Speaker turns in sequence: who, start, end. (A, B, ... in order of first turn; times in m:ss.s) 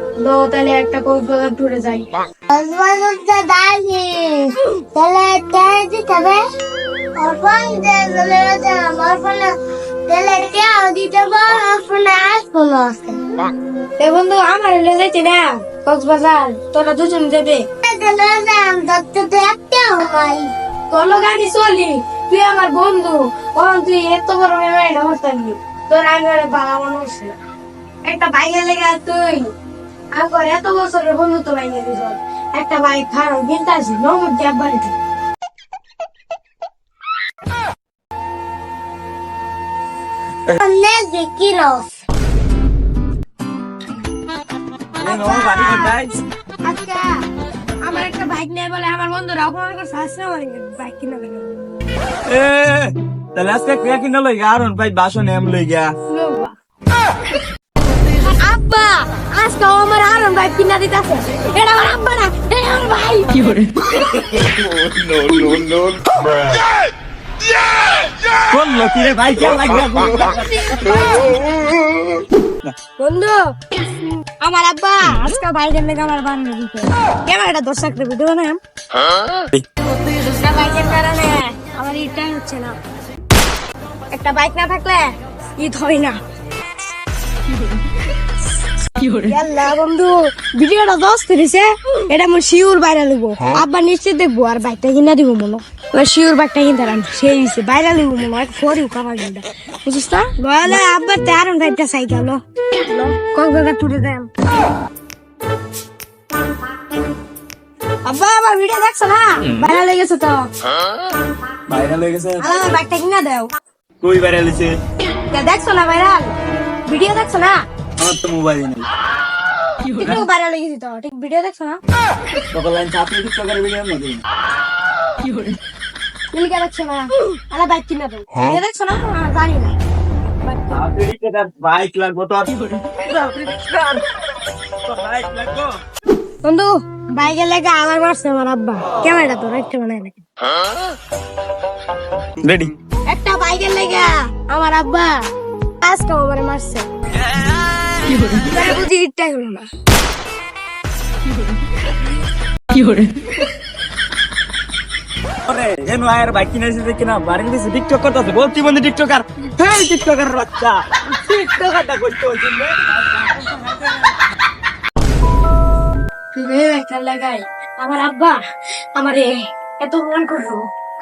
0:00.2-0:02.1 A
0:02.5-0:06.4 B
0:07.2-0:13.2 B
0:14.0-0:17.7 A
0:17.8-0:20.5 B
0:20.9-0:27.3 A
0:28.0-0:29.5 A
0:30.1-0:34.9 A
0:40.6-0:41.9 B
0:45.0-0:46.2 C
0:45.0-0:46.0 A
0:46.6-0:47.2 A
0:47.8-0:51.5 A
0:52.3-0:55.9 C
0:56.1-0:56.6 A
0:58.2-1:04.0 A
1:08.4-1:11.3 C
1:10.4-1:11.3 A
1:13.0-1:13.4 A
1:14.4-1:18.6 A
1:19.9-1:22.8 A
1:24.1-1:26.2 A
1:29.0-1:44.3 A
1:48.0-1:50.5 A
1:51.7-1:52.5 C
1:52.4-1:53.5 A
1:54.0-1:54.8 C
1:55.3-1:56.3 A
1:56.9-1:57.6 A
1:58.0-1:58.9 C
2:00.0-2:01.8 A
2:02.5-2:04.2 C
2:06.3-2:09.7 A
2:10.4-2:10.8 A
2:10.7-2:14.0 C
2:14.8-2:15.7 C
2:16.4-2:20.2 A
2:22.4-2:22.7 C
2:23.1-2:25.2 A
2:25.8-2:26.9 A
2:28.0-2:28.3 C
2:28.3-2:29.7 A
2:35.5-2:44.1 C
2:46.3-2:48.4 A
2:48.9-2:50.6 A